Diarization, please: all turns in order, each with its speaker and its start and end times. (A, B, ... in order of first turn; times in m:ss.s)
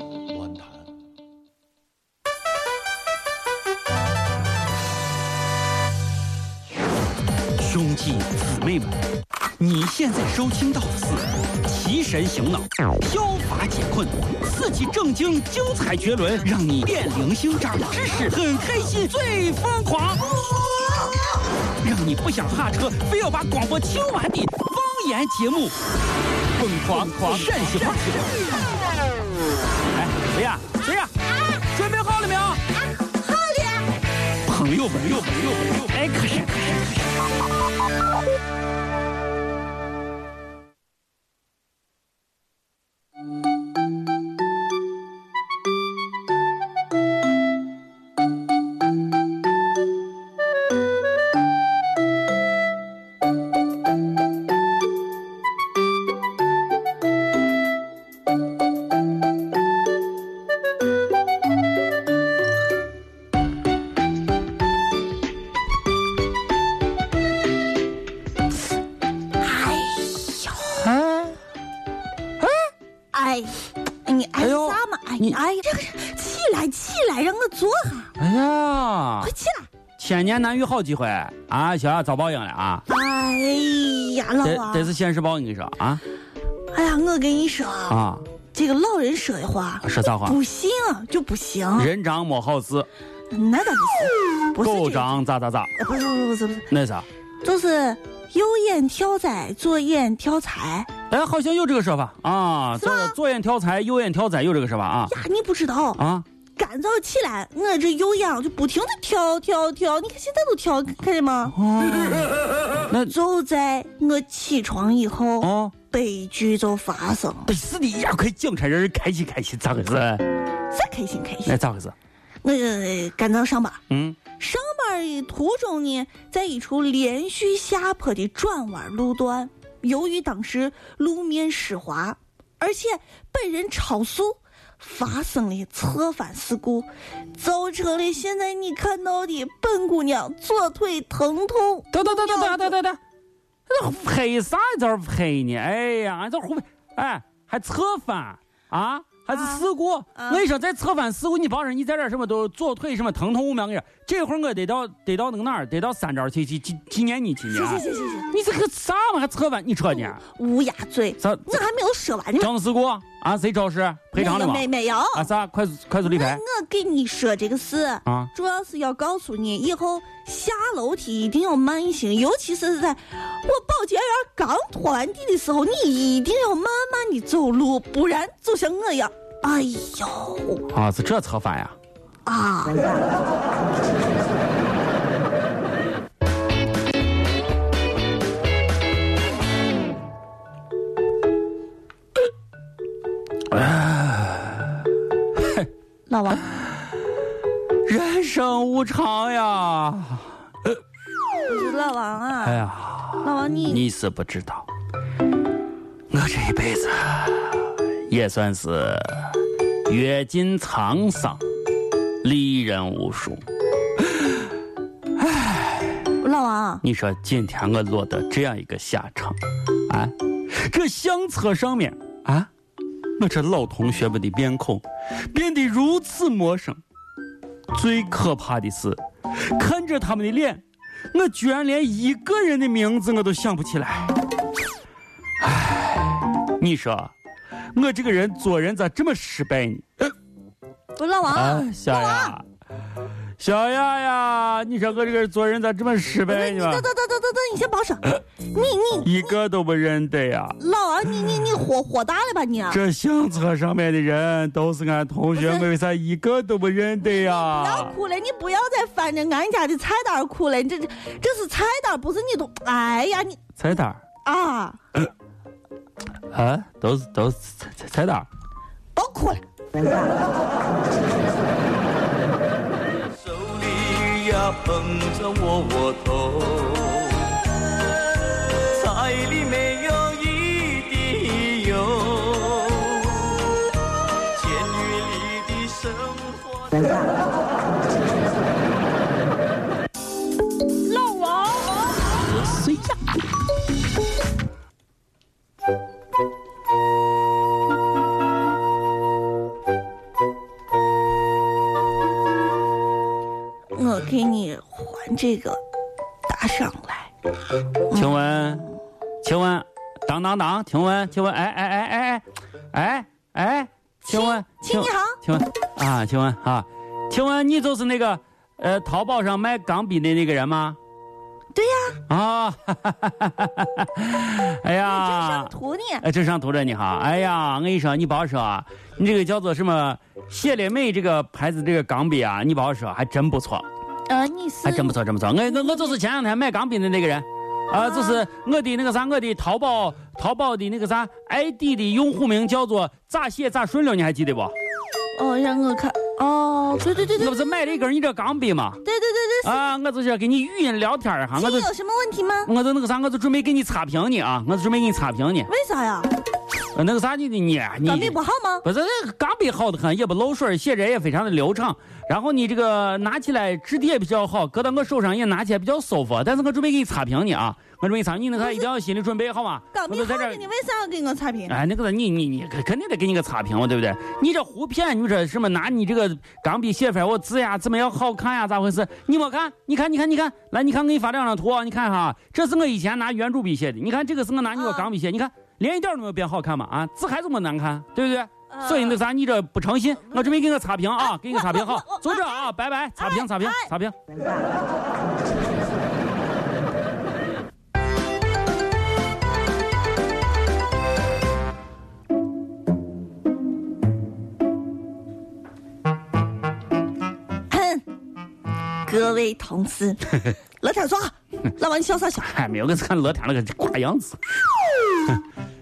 0:07.6-0:09.0 A
0:09.6-0:20.4 A
0:21.8-0:25.8 A
0:26.5-0:28.4 A
0:29.9-0:32.6 A
0:33.0-0:33.9 B
0:34.4-0:37.1 A
1:09.4-1:10.9 B
1:10.8-1:11.4 A
1:13.1-1:18.1 B
1:14.4-1:15.4 A
1:18.2-1:19.3 A
1:19.2-1:19.7 B
1:20.0-1:22.9 A
1:22.9-1:24.9 B
1:24.4-1:26.0 A
1:26.7-1:28.0 B
1:27.9-1:28.3 A
1:28.5-1:31.9 B
1:29.8-1:30.4 A
1:31.8-1:32.9 A
1:33.3-1:35.1 B
1:34.6-1:35.7 A
1:35.8-1:36.7 B
1:36.7-1:37.1 A
1:37.4-1:40.9 B
1:41.1-1:45.2 A
1:42.8-1:43.2 B
1:45.1-1:46.0 B
1:46.0-1:46.2 A
1:46.6-1:51.6 B
1:51.6-1:53.1 A
1:53.1-1:57.5 B
1:55.4-1:55.7 A
1:57.5-2:00.2 A
2:00.7-2:01.6 B
2:01.5-2:01.9 A
2:02.4-2:03.8 B
2:03.9-2:04.2 A
2:04.4-2:22.7 B
2:21.9-2:23.0 A
2:23.7-2:40.2 A
2:29.3-2:29.6 B
2:30.2-2:30.5 B
2:37.5-2:38.3 B
2:40.1-2:42.5 B
2:41.2-2:41.6 A
2:42.4-2:46.4 A
2:44.2-2:45.3 B
2:46.0-3:00.6 B
2:48.1-2:48.3 A
3:00.7-3:01.8 A
3:02.3-3:03.0 B
3:13.5-3:14.8 A
3:15.4-3:15.7 A
3:16.1-3:16.4 B
3:17.9-3:20.8 A
3:21.5-3:22.7 B
3:22.4-3:24.7 A
3:23.2-3:23.9 B
3:26.1-3:31.4 A
3:32.2-3:33.4 A
3:35.2-3:36.1 A
3:36.2-3:36.8 B
3:36.8-3:42.5 A
3:43.2-3:46.8 A
3:47.7-3:54.1 A
3:55.4-3:57.1 A
3:57.7-4:00.1 A
4:01.0-4:02.4 B
4:01.3-4:02.4 A
4:03.4-4:06.9 A
4:06.3-4:09.3 B
4:09.0-4:10.6 A
4:10.6-4:12.8 B
4:12.7-4:17.9 A
4:15.4-4:15.7 B
4:17.0-4:23.4 B
4:23.6-4:24.0 A
4:24.2-4:24.8 B
4:26.3-4:28.3 A
4:29.0-4:29.9 B
4:33.2-4:36.1 C
4:33.3-4:37.2 A
4:38.7-4:42.9 A
4:39.5-4:41.5 C
4:42.8-4:43.3 C
4:44.4-4:47.0 C
4:44.4-4:46.3 A
4:50.9-4:51.7 B
4:52.3-4:52.9 A
5:03.8-5:05.6 B
5:06.3-5:07.1 B
5:07.9-5:08.6 B
5:07.9-5:08.7 A
5:09.2-5:20.8 A
5:14.1-5:15.2 B
5:21.5-5:22.0 B
5:22.1-5:33.7 A
5:24.8-5:26.1 B
5:34.1-5:35.0 B
5:34.6-5:44.5 A
5:35.5-5:36.0 B
5:37.7-5:38.2 B
5:45.2-5:47.4 B
5:47.2-5:48.8 A
5:48.8-5:49.7 B
5:49.4-5:51.7 A
5:51.4-5:52.5 B
5:52.5-5:55.5 A
5:55.5-5:56.1 B
5:56.7-6:10.4 A
5:57.8-5:58.6 B
6:08.4-6:08.7 B
6:09.7-6:11.6 B
6:11.5-6:34.0 A
6:24.5-6:24.9 B
6:28.5-6:29.0 B
6:31.0-6:33.7 B
6:47.5-6:47.8 B
6:48.8-6:52.3 B
6:52.2-6:54.4 A